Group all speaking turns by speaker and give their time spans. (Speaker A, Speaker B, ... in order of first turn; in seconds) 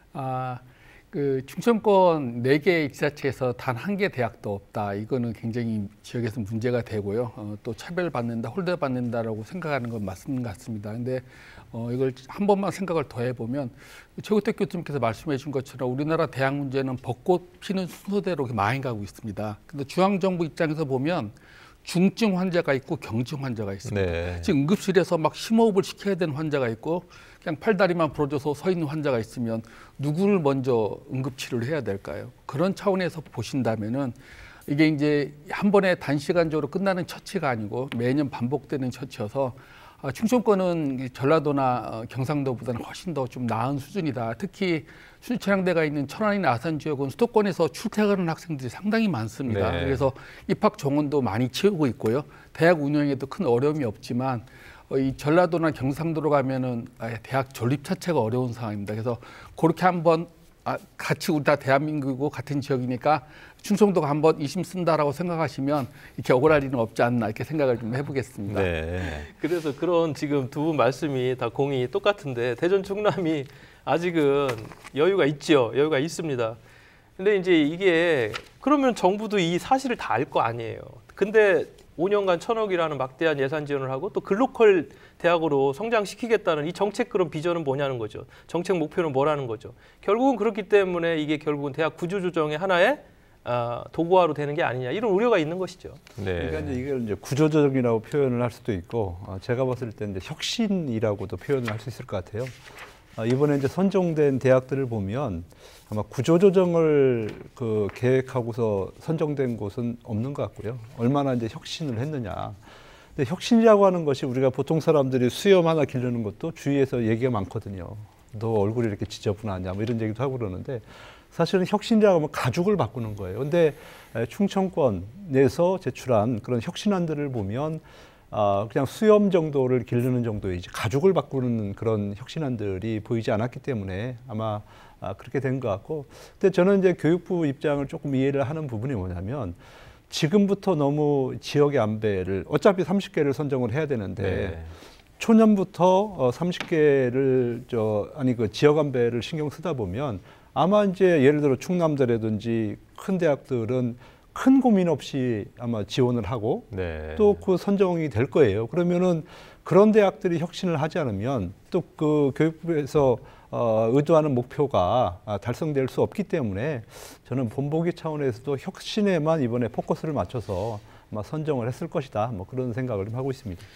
Speaker A: 0.1-68.7
Speaker B: 23.9-24.5, 49.5-50.1, 68.5-69.3, 96.2-96.8, 144.2-144.7, 156.7-157.4
Speaker C: 69.0-76.6, 77.2-96.0
Speaker D: 96.4-102.6, 103.2-112.6, 113.2-139.6, 140.1-144.6, 145.2-173.7